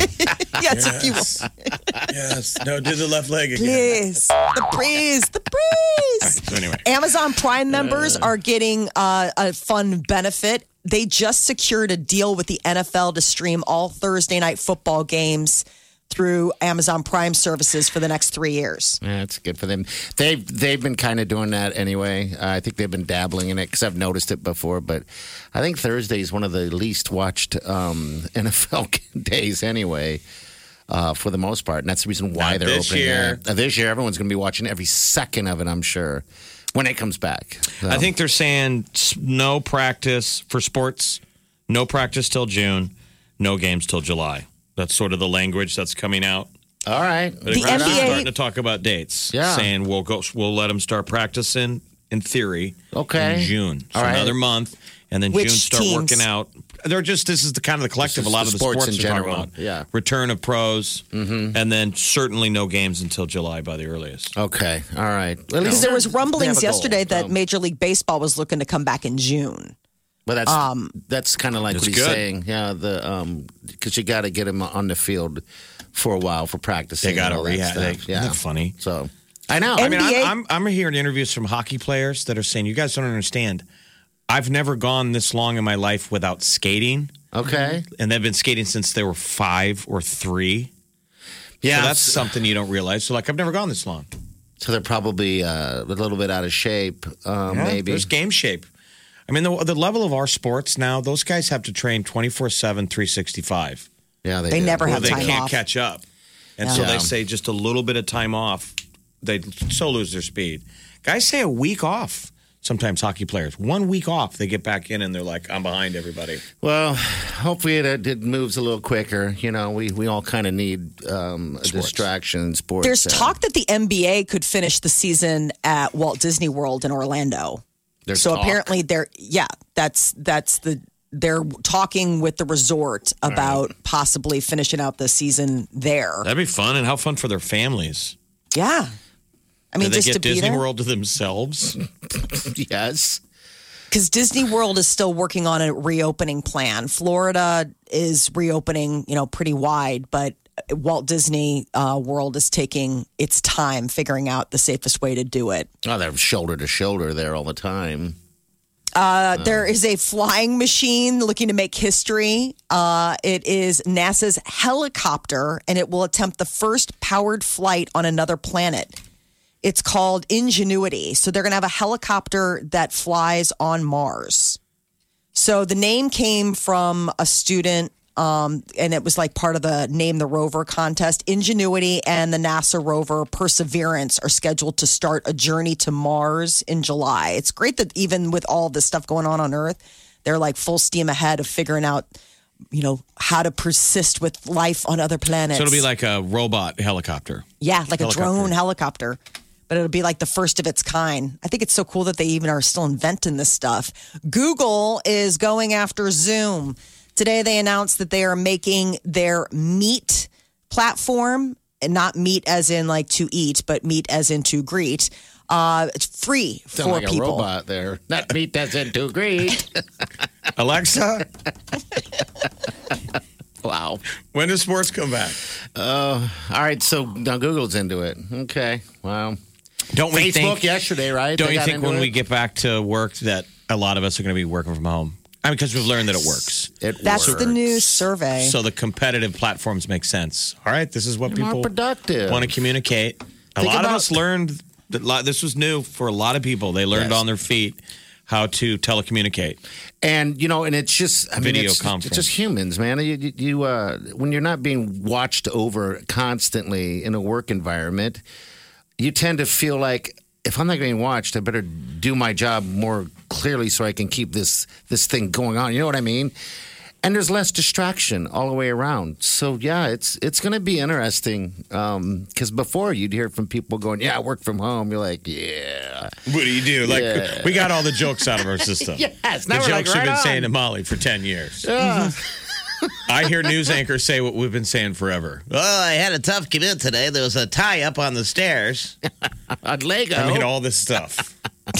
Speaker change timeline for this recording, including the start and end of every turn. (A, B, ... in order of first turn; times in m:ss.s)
0:00.2-0:01.4 A
0:00.6-0:01.4 B
0:02.1-0:04.0 B
0:03.6-0:19.0 A
0:06.2-0:06.8 B
0:19.0-0:30.2 C
0:30.9-0:38.1 C
0:32.4-0:33.4 B
0:37.8-0:46.5 B
0:46.8-0:48.2 C
0:47.4-1:04.3 B
0:47.5-0:48.3 A
0:49.3-0:49.7 C
0:52.9-0:54.4 C
0:55.3-0:56.2 A
0:58.0-0:59.9 C
1:01.1-1:01.6 C
1:04.3-1:07.3 C
1:05.6-1:09.7 A
1:10.2-1:15.4 C
1:10.5-1:10.9 A
1:11.7-1:12.2 B
1:15.9-1:20.0 C
1:17.0-1:18.7 B
1:19.8-1:20.3 A
1:19.8-1:23.6 B
1:24.3-1:27.3 B
1:27.3-1:27.8 C
1:28.0-1:30.7 B
1:31.6-1:32.3 C
1:31.7-1:34.1 B
1:34.6-1:38.1 C
1:37.5-1:38.6 B
1:39.3-1:43.9 B
1:44.2-1:45.4 C
1:44.5-1:45.6 A
1:44.8-1:46.0 B
1:46.6-1:56.4 B
1:46.7-1:47.1 C
1:56.6-2:03.3 C
2:01.7-2:02.0 B
2:02.8-2:07.6 A
2:08.0-2:08.8 C
2:08.1-2:16.2 A
2:13.3-2:13.6 C
2:16.2-2:18.1 B
2:18.5-2:18.9 A
2:19.7-2:20.6 A
2:19.8-2:21.8 B
2:22.1-2:23.2 C
2:23.9-2:35.7 A
2:35.8-2:38.2 C
2:38.9-2:49.0 A
2:39.4-2:39.7 C
2:49.6-2:54.6 A
2:55.3-3:12.1 A
3:12.7-3:15.8 A
3:15.5-3:17.5 B
3:17.6-3:37.5 A
3:18.0-3:18.5 B
3:36.7-3:39.8 C
3:40.6-3:41.3 B
3:43.6-3:44.0 C
3:44.3-3:45.4 B
3:45.7-3:49.4 C
3:49.9-3:50.7 B
3:50.1-3:52.1 C
3:51.4-3:57.5 B
3:56.8-3:57.7 C
3:57.0-3:58.5 A
3:58.4-4:01.7 B
4:01.3-4:02.5 C
4:02.3-4:09.6 B
4:03.6-4:04.1 C
4:06.9-4:07.2 C
4:10.0-4:18.2 C
4:11.4-4:12.3 B
4:19.0-4:26.3 C
4:27.0-4:36.1 C
4:36.3-4:41.7 B
4:36.8-4:40.5 C
4:41.6-4:43.0 C
4:43.1-4:49.0 B
4:49.5-4:50.5 C
4:50.1-4:51.3 B